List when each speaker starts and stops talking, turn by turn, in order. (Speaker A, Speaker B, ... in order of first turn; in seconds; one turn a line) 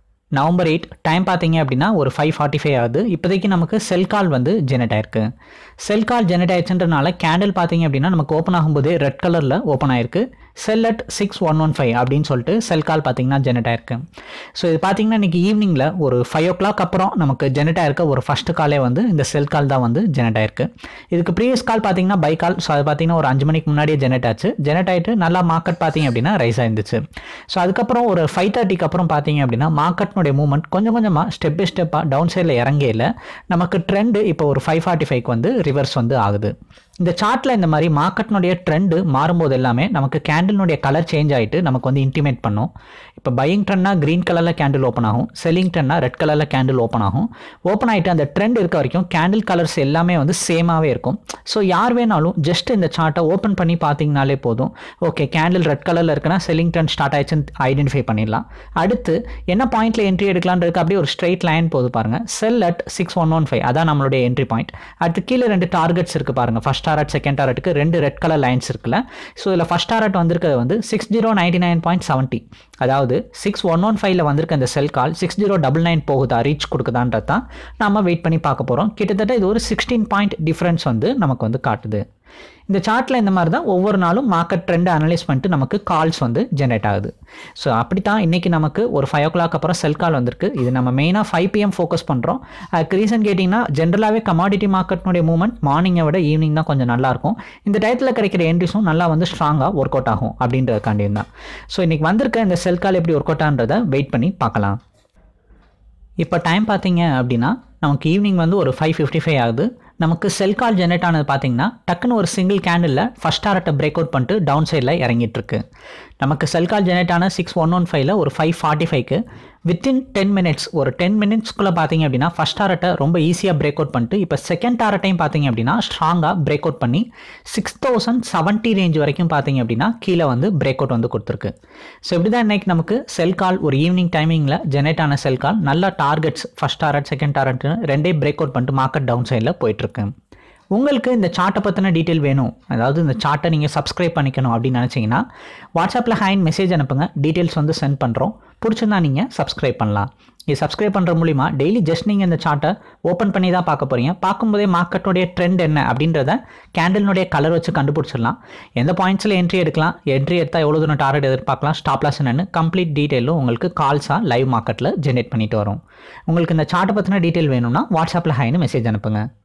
Speaker A: 0.4-5.3
Speaker A: 5.9-14.0
Speaker A: 14.6-82.0
Speaker A: 82.7-104.8
Speaker A: 106.2-115.6
Speaker A: 116.2-131.5
Speaker A: 132.1-140.1
Speaker A: 140.8-145.2
Speaker A: 145.8-169.2